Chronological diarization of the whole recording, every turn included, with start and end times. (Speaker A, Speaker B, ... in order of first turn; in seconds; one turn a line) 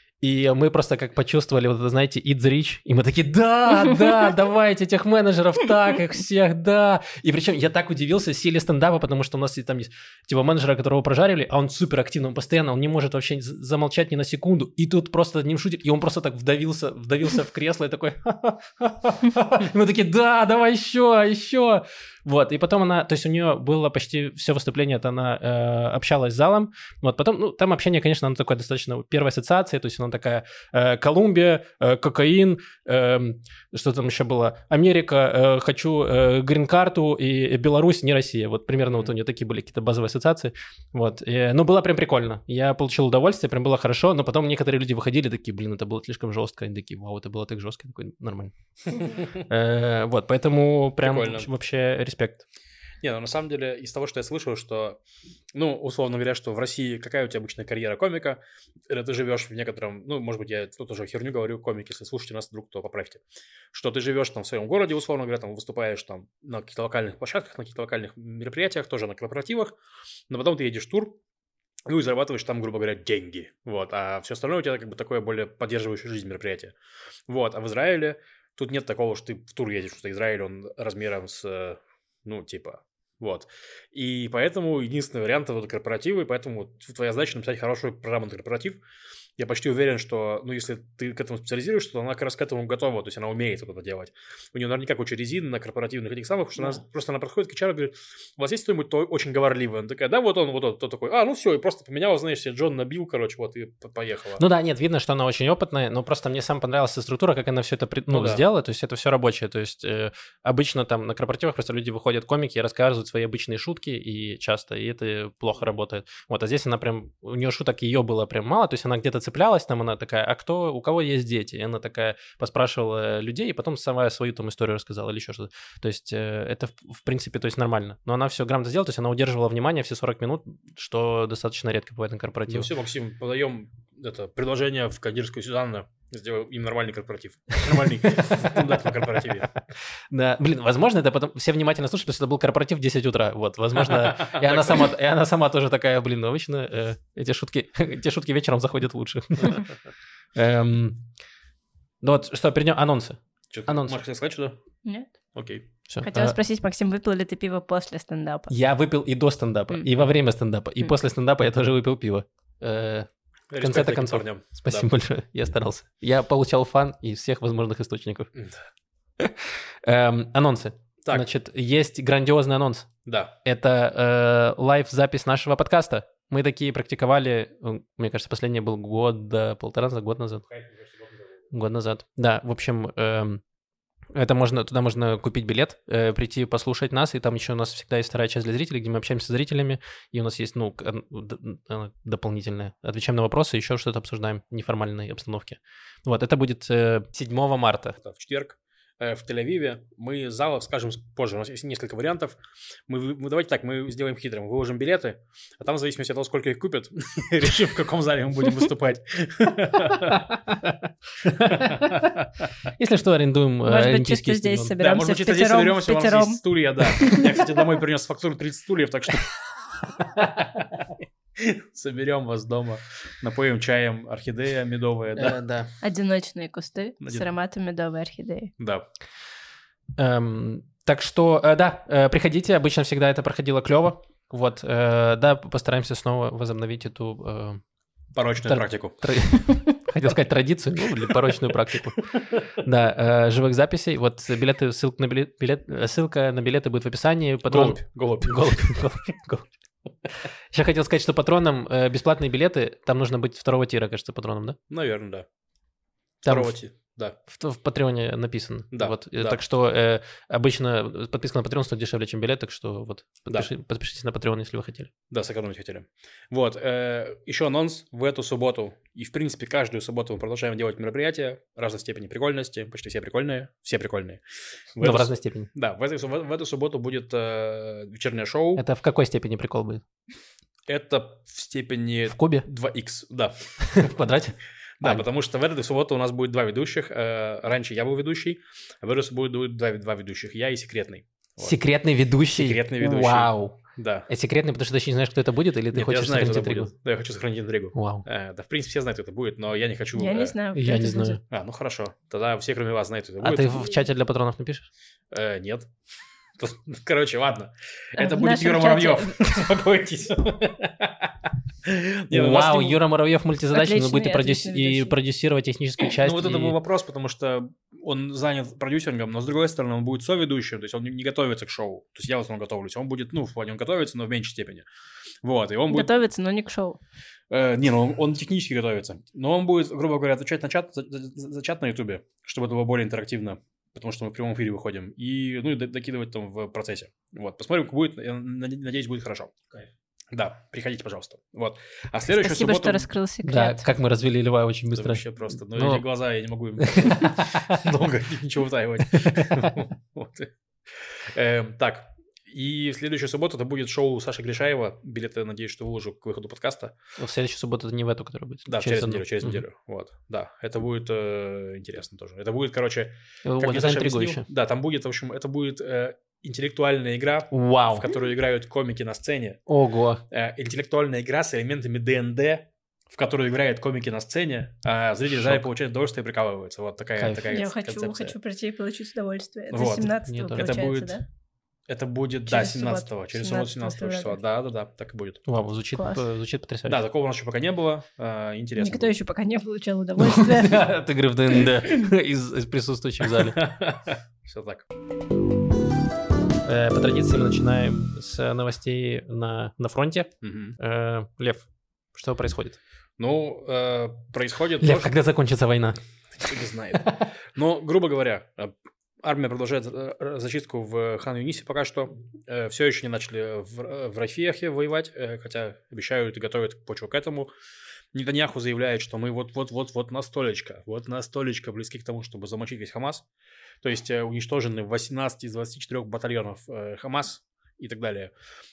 Speaker A: 0.2-52.5
Speaker B: 51.0-51.5
Speaker B: 53.0-55.0
Speaker B: 55.5-69.8
Speaker B: 70.3-71.2
Speaker B: 71.9-76.8
Speaker B: 77.3-88.8
Speaker B: 89.4-104.4
Speaker A: 104.4-132.7
Speaker B: 108.1-108.4
Speaker B: 132.5-139.5
Speaker A: 138.2-138.6
Speaker A: 140.1-149.7
Speaker B: 143.8-144.9
Speaker A: 150.3-151.0
Speaker A: 152.0-154.0
Speaker B: 153.5-154.6
Speaker C: 154.8-155.1
Speaker B: 155.3-155.6
Speaker A: 155.9-156.3
Speaker C: 156.0-158.5
Speaker A: 158.5-168.3
Speaker B: 163.5-164.9
Speaker A: 169.2-172.9
Speaker B: 173.1-173.3
Speaker A: 173.4-180.4
Speaker B: 180.5-181.3
Speaker A: 181.5-183.4
Speaker A: 184.1-198.0
Speaker B: 198.0-210.8
Speaker A: 211.2-214.8
Speaker B: 211.4-212.5
Speaker C: 213.7-217.4
Speaker B: 214.8-225.4
Speaker A: 225.1-225.7
Speaker C: 225.8-228.5
Speaker B: 228.6-228.9
Speaker A: 230.0-237.6
Speaker B: 238.1-239.0
Speaker A: 238.4-249.7
Speaker B: 242.1-242.4
Speaker B: 247.5-248.8
Speaker A: 250.3-254.6
Speaker B: 254.7-255.3
Speaker A: 256.2-256.6
Speaker B: 256.3-257.2
Speaker A: 257.2-264.9
Speaker B: 258.7-259.4
Speaker B: 265.1-278.6
Speaker A: 274.8-275.5
Speaker A: 278.6-279.8
Speaker B: 280.7-283.9
Speaker A: 282.1-282.4
Speaker A: 283.6-285.1
Speaker B: 284.8-291.6
Speaker A: 291.4-296.7
Speaker B: 292.3-294.1
Speaker B: 295.7-300.4
Speaker A: 297.7-298.1
Speaker C: 300.0-301.2
Speaker A: 300.6-301.2
Speaker B: 301.3-303.6
Speaker A: 303.2-304.7
Speaker B: 305.1-305.7
Speaker B: 306.4-312.8
Speaker C: 308.0-309.2
Speaker A: 312.1-316.6
Speaker C: 313.5-315.0
Speaker B: 315.8-324.7
Speaker B: 325.2-325.9
Speaker C: 325.7-326.8
Speaker B: 327.3-339.4
Speaker B: 340.1-342.9
Speaker C: 342.1-343.7
Speaker A: 343.2-345.8
Speaker B: 344.7-356.8
Speaker A: 346.6-347.6
Speaker A: 348.9-349.6
Speaker A: 357.0-359.4
Speaker B: 358.5-369.4
Speaker A: 363.2-364.2
Speaker A: 367.3-367.9
Speaker A: 369.5-370.0
Speaker B: 370.1-378.2
Speaker A: 375.1-375.4
Speaker A: 377.0-377.3
Speaker C: 377.3-381.0
Speaker B: 379.5-381.0
Speaker A: 380.1-380.5
Speaker B: 381.7-385.2
Speaker C: 382.3-384.2
Speaker A: 385.3-386.8
Speaker C: 385.8-386.0
Speaker B: 386.7-388.9
Speaker C: 388.6-390.7
Speaker A: 390.0-393.4
Speaker C: 391.4-391.9
Speaker B: 393.1-394.7
Speaker A: 396.4-402.6
Speaker B: 400.2-400.6
Speaker B: 403.0-404.9
Speaker A: 404.6-405.8
Speaker B: 406.2-417.3
Speaker A: 406.8-407.0
Speaker B: 417.9-423.1
Speaker B: 423.6-428.1